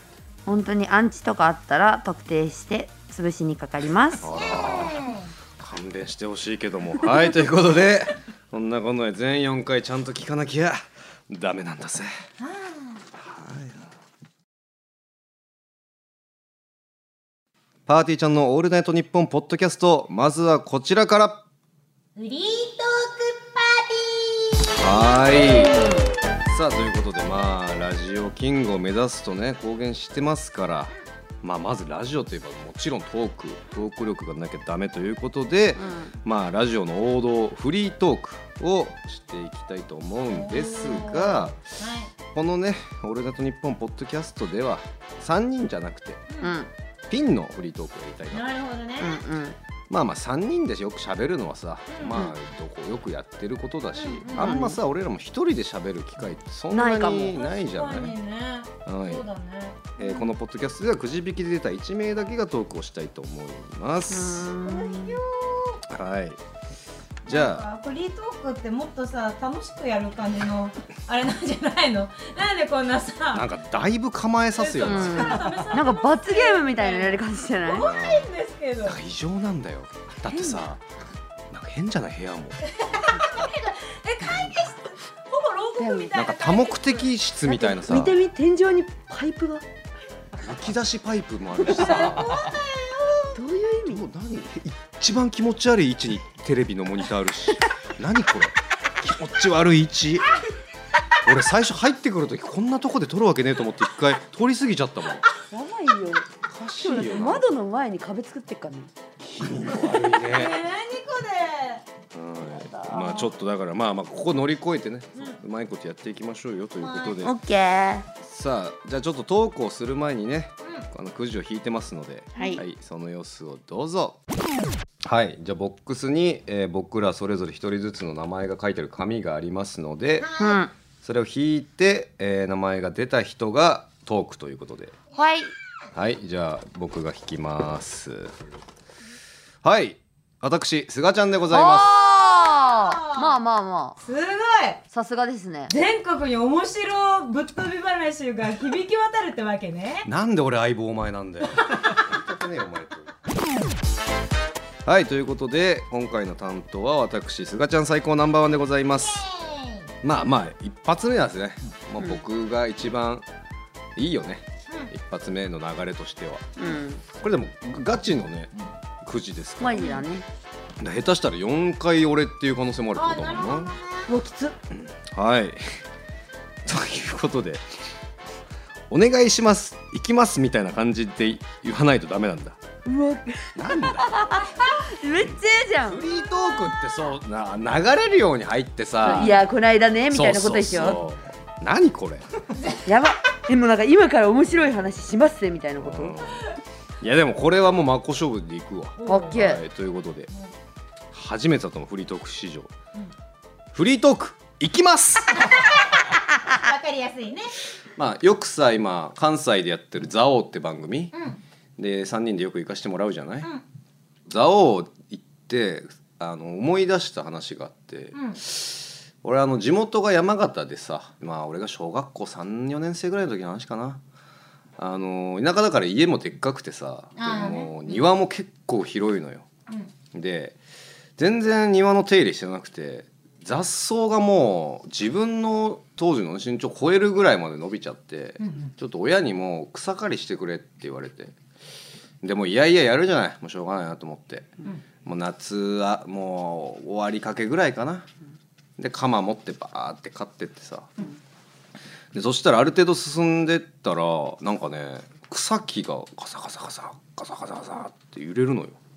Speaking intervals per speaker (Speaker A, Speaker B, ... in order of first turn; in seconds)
Speaker A: 0.5-4.3, 35.8-36.1, 46.4-46.7, 49.0-49.5, 54.3-54.8, 56.7-57.4, 64.1-65.2, 74.8-77.9, 80.3-80.6, 85.8-86.1, 87.5-89.6, 91.7-92.1, 93.3-94.0, 105.5-108.9, 112.5-113.3, 117.2-118.1, 122.3-122.6, 130.4-130.7, 135.2-135.5, 141.5-144.0, 144.9-145.7, 166.6-167.0, 169.6-170.2, 174.1-174.6, 182.8-186.0, 189.0-191.0, 192.8-196.2, 199.1-199.6
Speaker B: 4.2-12.1, 13.2-13.9, 17.9-21.4, 24.8-25.9, 26.5-41.6, 42.3-46.2, 47.1-48.5, 49.9-58.1, 58.9-59.2, 60.0-64.5, 65.9-66.4, 67.2-67.6, 73.3-75.5, 77.8-78.3, 78.8-80.8, 81.5-82.6, 86.1-88.2, 90.4-92.5, 93.8-100.3, 101.2-105.2, 106.5-107.5, 109.2-110.6, 112.1-117.3, 118.2-124.2, 125.0-130.3, 131.0-134.9, 135.9-138.3, 139.6-142.0, 150.0-153.1, 154.8-159.2, 160.0-163.2, 163.9-166.5, 167.1-169.9, 170.8-173.7, 174.7-175.8, 176.6-177.6, 178.9-182.6, 183.6-184.4, 185.2-189.4, 190.1-192.3, 195.8-200.3, 201.1-202.7, 203.7-205.7, 207.9-211.1, 211.8-213.5, 214.3-224.0, 224.8-229.5, 230.1-230.6, 231.2-241.3, 242.2-248.1, 248.8-250.9, 252.1-258.8
Speaker C: 4.3-5.3, 12.4-13.0, 22.1-25.7, 40.3-42.1, 46.3-46.5, 48.3-49.2, 51.9-52.2, 53.9-54.6, 57.2-60.3, 64.6-65.8, 67.3-73.4, 74.5-79.0, 82.6-87.1, 91.8-93.3, 110.2-111.8, 116.8-117.2, 130.2-130.6, 142.3-143.3, 144.0-144.8, 145.7-150.1, 159.0-159.9, 172.9-174.1, 192.5-192.8, 199.0-199.4, 206.4-207.5, 211.1-211.4, 218.1-218.4, 227.2-227.9, 238.4-238.7